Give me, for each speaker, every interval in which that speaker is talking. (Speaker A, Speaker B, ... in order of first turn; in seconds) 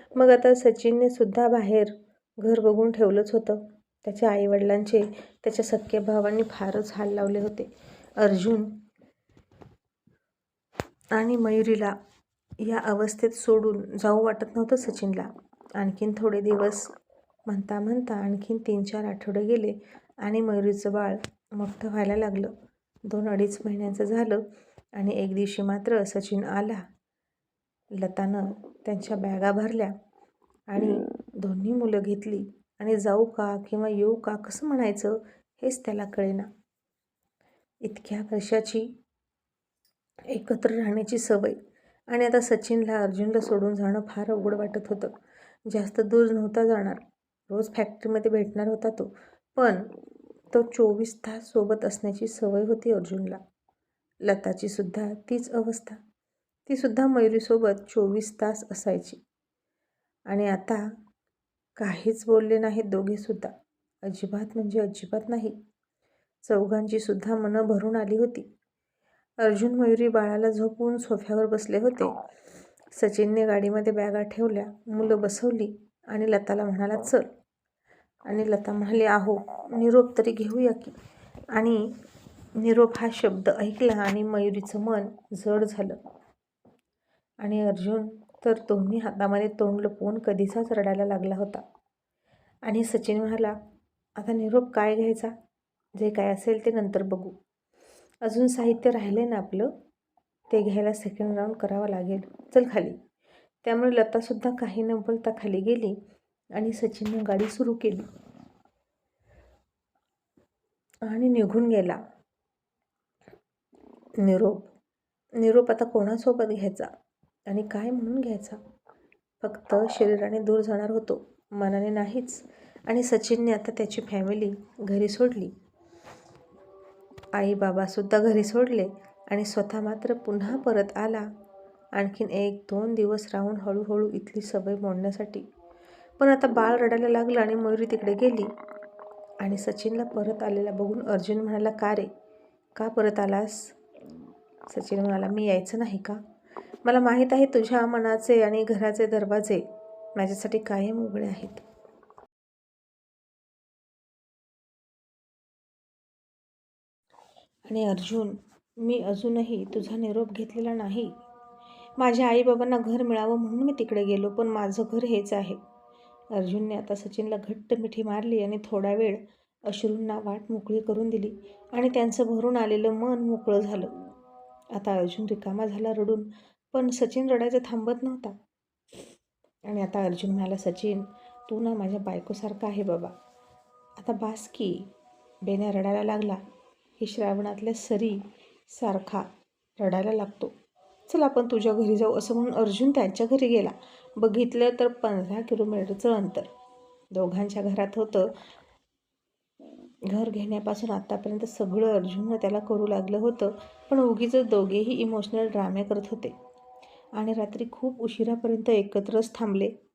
Speaker A: 0.1-7.7, 8.2-8.8, 11.2-11.9, 12.6-16.9, 17.5-22.5, 23.1-24.4, 25.0-26.9, 28.0-29.9, 30.7-36.5, 37.9-38.9, 40.3-41.6, 42.1-45.1, 45.7-49.9, 50.5-53.4, 54.3-56.0, 56.7-59.2, 60.3-60.8, 61.8-63.5, 64.1-65.5, 66.5-68.5, 69.4-72.2, 72.9-77.2, 78.3-81.0, 81.5-81.9, 82.6-86.0, 87.4-91.6, 92.7-93.5, 94.2-95.3, 96.0-97.4, 98.2-99.7, 100.5-103.0, 103.6-106.0, 106.6-108.0, 111.1-112.0, 114.2-114.7, 115.4-116.9, 117.5-118.6, 119.4-125.5, 127.3-131.3, 132.0-135.4, 136.2-138.5, 139.4-142.1, 142.8-143.8, 144.7-146.2, 146.8-149.6, 150.2-151.6, 157.7-161.2, 162.0-165.6, 166.3-173.9, 174.8-178.3, 179.7-183.1, 184.0-184.9, 185.4-186.4, 187.0-189.3, 189.8-190.5, 191.1-196.5, 197.1-198.3, 200.1-206.3, 207.2-209.7